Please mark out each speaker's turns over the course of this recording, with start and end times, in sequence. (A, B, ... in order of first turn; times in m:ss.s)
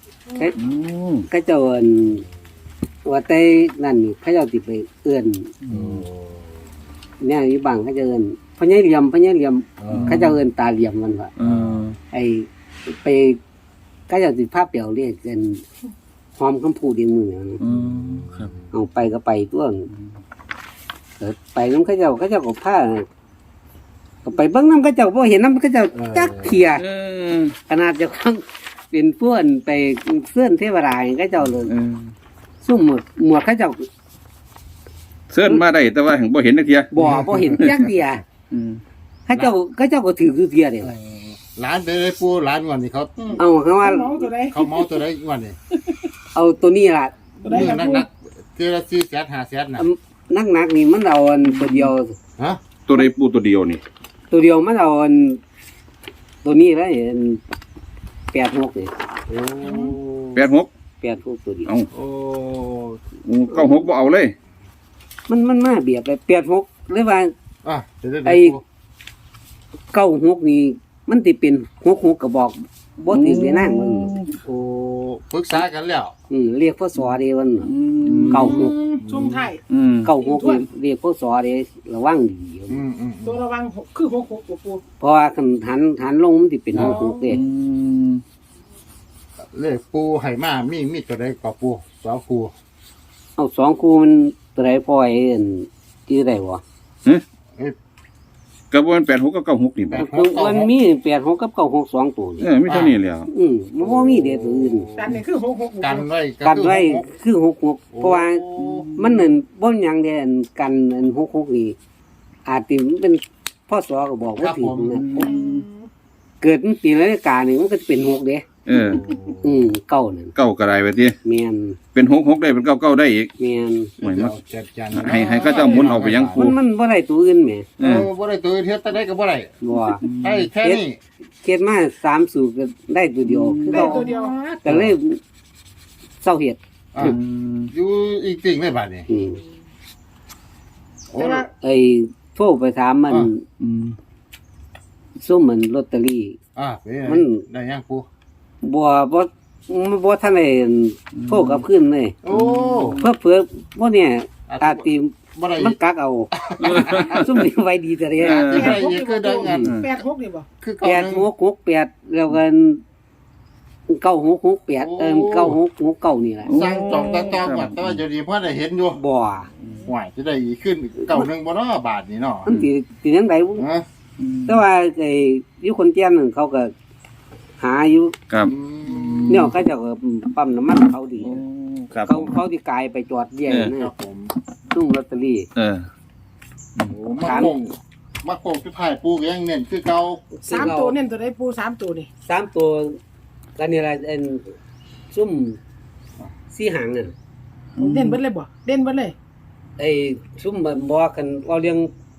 0:00.6-0:01.3 A
0:01.3-0:02.2 B
0:03.0-0:05.5 B
0:05.6-0:06.0 A
0:05.7-0:06.5 C
0:07.2-0:11.3 B
0:09.8-0:10.4 C
0:09.9-0:10.3 A
0:11.4-0:12.0 A
0:11.4-0:11.9 C
0:12.1-0:13.4 B
0:14.1-0:15.6 B
0:16.4-0:17.6 B
0:17.6-0:18.5 A
0:17.6-0:18.7 C
0:18.7-0:19.9 B
0:21.2-0:23.1 B
0:24.2-0:26.8 B
0:25.9-0:26.6 C
0:26.8-0:27.6 A
0:27.7-0:31.7 B
0:31.6-0:32.1 A
0:32.6-0:33.9 B
0:35.3-0:37.9 A
0:36.9-0:38.2 B
0:37.0-0:37.9 C
0:38.5-0:38.8 A
0:39.3-0:40.9 B
0:40.8-0:43.4 C
0:43.3-0:45.0 D
0:43.4-0:44.3 B
0:44.5-0:45.6 C
0:46.4-0:47.2 B
0:47.4-0:48.0 D
0:47.4-0:49.8 C
0:49.8-0:52.2 B
0:51.6-0:51.9 A
0:52.9-0:53.8 A
0:54.3-0:55.4 B
0:56.4-0:57.4 B
0:58.3-0:58.9 B
0:59.3-1:00.4 C
0:59.7-0:59.9 D
1:00.4-1:00.7 A
1:01.0-1:01.7 B
1:01.9-1:03.0 C
1:03.2-1:04.3 A
1:03.6-1:03.8 B
1:05.3-1:07.3 B
1:07.6-1:08.6 C
1:08.2-1:08.6 B
1:09.9-1:14.1 B
1:13.1-1:14.4 A
1:14.4-1:16.2 C
1:16.3-1:17.7 B
1:17.6-1:18.7 A
1:18.0-1:19.6 C
1:18.3-1:18.8 B
1:18.3-1:20.6 D
1:19.7-1:20.1 A
1:20.0-1:22.8 B
1:22.7-1:23.4 C
1:23.2-1:24.8 D
1:25.0-1:27.4 B
1:26.8-1:27.4 D
1:26.8-1:28.2 A
1:29.5-1:32.5 C
1:33.4-1:36.6 B
1:38.7-1:40.1 A
1:39.9-1:40.7 C
1:39.9-1:42.5 B
1:42.4-1:43.3 A
1:42.7-1:43.0 C
1:43.3-1:44.9 B
1:43.8-1:45.2 C
1:45.0-1:46.0 D
1:45.8-1:47.1 C
1:46.4-1:51.8 B
1:47.9-1:48.9 C
1:48.6-1:49.3 A
1:52.5-1:55.3 B
1:54.4-1:55.1 C
1:54.9-1:55.7 A
1:55.2-1:55.9 D
1:56.4-1:58.5 B
1:58.7-1:59.0 A
1:58.7-1:59.7 C
1:59.4-2:00.3 B
2:00.4-2:01.2 A
2:01.2-2:01.8 B
2:01.9-2:03.3 A
2:03.4-2:03.9 B
2:04.0-2:06.5 C
2:04.0-2:04.4 A
2:04.9-2:06.6 A
2:05.5-2:05.9 D
2:06.3-2:07.7 B
2:07.8-2:08.1 A
2:07.8-2:09.6 C
2:09.6-2:10.0 B
2:10.0-2:10.5 A
2:10.2-2:11.0 C
2:11.4-2:14.1 B
2:13.3-2:14.0 A
2:13.7-2:14.4 D
2:13.8-2:14.9 C
2:14.6-2:15.2 B
2:16.2-2:17.1 B
2:16.9-2:17.2 C
2:17.0-2:17.7 A
2:17.7-2:19.1 C
2:19.1-2:19.4 B
2:21.1-2:21.5 C
2:21.2-2:21.5 D
2:21.4-2:23.4 B
2:23.6-2:24.0 A
2:25.2-2:26.4 B
2:26.6-2:28.1 C
2:27.1-2:27.4 B
2:28.6-2:32.2 B
2:31.2-2:31.6 A
2:32.2-2:33.0 C
2:32.3-2:33.0 A
2:33.0-2:38.8 B
2:34.5-2:35.8 C
2:36.3-2:37.4 C
2:36.6-2:37.3 A
2:38.2-2:38.8 A
2:38.2-2:39.8 C
2:38.5-2:40.5 D
2:39.6-2:39.9 A
2:40.6-2:41.3 C
2:40.8-2:42.8 B
2:43.9-2:46.9 B
2:44.8-2:45.6 C
2:46.4-2:48.0 A
2:46.5-2:49.0 C
2:48.9-2:49.5 B
2:49.8-2:52.5 C
2:52.5-2:53.7 B
2:53.6-2:53.9 C
2:54.2-2:54.6 A
2:54.5-2:56.7 B
2:57.6-2:58.2 B
2:58.3-2:59.5 A
2:58.4-2:59.5 C
2:59.3-3:01.4 B
3:01.2-3:02.3 A
3:02.1-3:03.9 B
3:03.7-3:04.3 C
3:04.7-3:05.5 B
3:05.6-3:05.9 A
3:06.8-3:10.7 C
3:07.2-3:07.6 B
3:10.3-3:11.0 B
3:10.4-3:12.1 D
3:12.2-3:13.0 B
3:13.6-3:14.5 B
3:15.1-3:15.6 B
3:16.5-3:17.2 B
3:17.8-3:18.2 A
3:17.8-3:19.2 D
3:19.8-3:21.9 B